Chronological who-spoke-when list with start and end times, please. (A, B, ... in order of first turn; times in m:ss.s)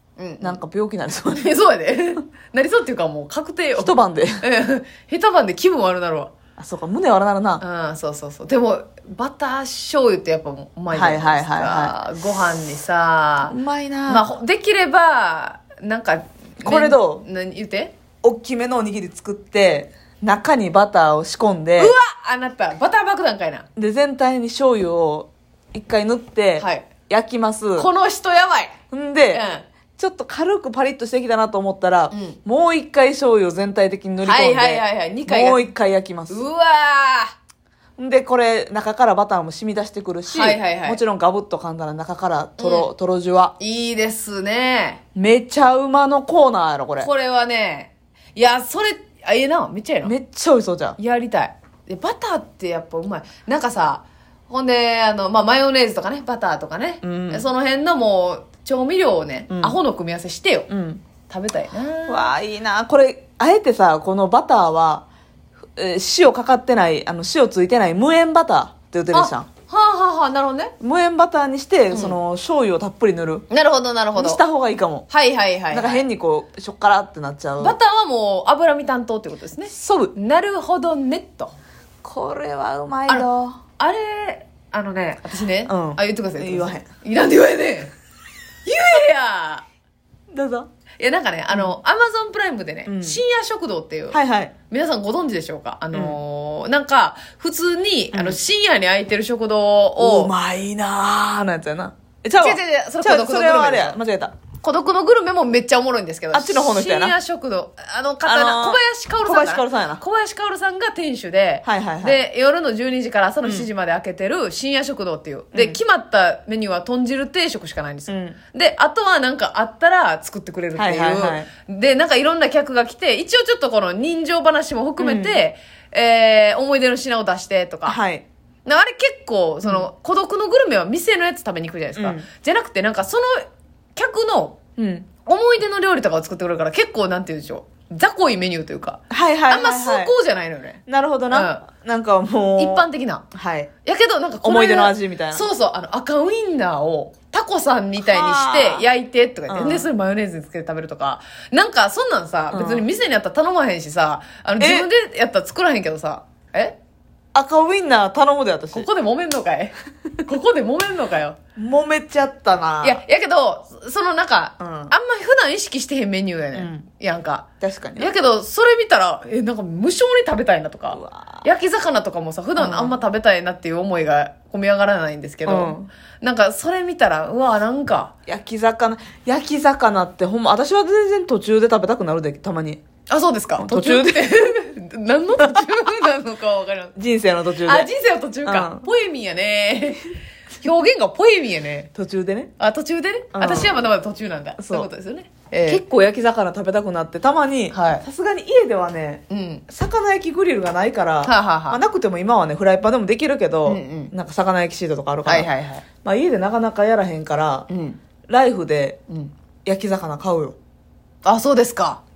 0:00.2-0:00.6 A
0:00.4-0:01.6 B
0:01.3-0:06.3 A
0:03.8-0:04.4 B
0:06.6-0:07.6 B
0:07.6-0:13.6 A
0:10.9-0:11.9 B
0:13.5-0:14.3 B
0:14.1-0:17.9 A
0:16.6-0:17.2 B
0:18.2-0:21.9 B
0:21.8-0:23.7 A
0:23.8-0:27.9 B
0:26.6-0:26.9 A
0:27.8-0:28.8 A
0:28.9-0:29.4 B
0:29.3-0:29.7 A
0:30.0-0:36.4 B
0:32.1-0:32.4 A
0:34.2-0:35.6 A
0:36.3-0:37.3 A
0:38.0-0:43.6 B
0:40.2-0:41.0 A
0:42.6-0:42.9 A
0:43.6-0:45.0 A
0:45.2-0:47.1 B
0:47.0-0:50.1 A
0:50.0-0:51.0 B
0:51.0-1:00.7 A
0:57.0-0:57.5 B
0:59.5-0:59.8 B
1:00.7-1:01.0 B
1:01.3-1:02.3 A
1:02.1-1:05.1 B
1:05.8-1:09.5 B
1:09.1-1:10.7 A
1:10.8-1:13.5 B
1:11.9-1:12.2 A
1:13.5-1:14.4 A
1:14.2-1:15.1 B
1:15.1-1:16.0 A
1:15.7-1:17.8 B
1:17.6-1:21.5 A
1:19.7-1:20.1 B
1:22.0-1:23.6 B
1:23.1-1:27.9 A
1:25.7-1:26.9 B
1:28.6-1:29.6 A
1:30.3-1:30.7 B
1:31.0-1:34.2 A
1:32.9-1:33.2 B
1:34.1-1:34.5 B
1:34.7-1:40.3 A
1:35.9-1:36.2 B
1:38.1-1:38.4 B
1:40.0-1:44.3 B
1:42.4-1:44.0 A
1:44.6-2:08.0 A
1:46.3-1:47.2 B
1:48.2-1:50.0 B
1:51.6-1:52.2 B
1:53.4-1:53.7 B
1:55.5-1:55.8 B
1:58.1-1:58.4 B
2:00.8-2:01.5 B
2:05.0-2:05.4 B
2:07.9-2:08.2 B
2:08.6-2:14.6 A
2:12.0-2:12.2 B
2:14.8-2:15.1 B
2:15.2-2:20.8 A
2:19.1-2:20.1 B
2:20.9-2:23.7 B
2:21.3-2:21.6 A
2:22.6-2:23.2 A
2:23.8-2:36.8 A
2:24.4-2:25.5 B
2:28.0-2:28.9 B
2:29.5-2:29.9 B
2:32.5-2:32.9 B
2:34.6-2:34.9 B
2:37.3-2:38.9 B
2:38.7-2:41.4 A
2:41.6-2:43.0 B
2:42.8-2:47.4 A
2:44.6-2:44.9 B
2:46.5-2:46.9 B
2:47.6-2:48.1 B
2:48.0-2:58.1 A
2:50.9-2:51.4 B
2:52.6-2:53.0 B
2:55.4-2:55.9 B
2:58.2-3:02.8 B
3:03.1-3:06.9 A
3:03.6-3:04.5 B
3:05.4-3:05.8 B
3:07.0-3:07.9 B
3:07.6-3:11.9 A
3:08.4-3:08.9 B
3:11.9-3:12.5 B
3:12.6-3:15.8 A
3:13.3-3:13.8 B
3:14.6-3:14.9 B
3:15.7-3:25.5 B
3:17.7-3:18.0 A
3:19.3-3:19.6 A
3:21.2-3:21.8 A
3:23.7-3:24.1 A
3:25.2-3:25.8 A
3:26.0-3:27.7 B
3:27.7-3:28.0 A
3:28.3-3:29.0 B
3:29.6-3:30.6 B
3:31.2-3:32.0 A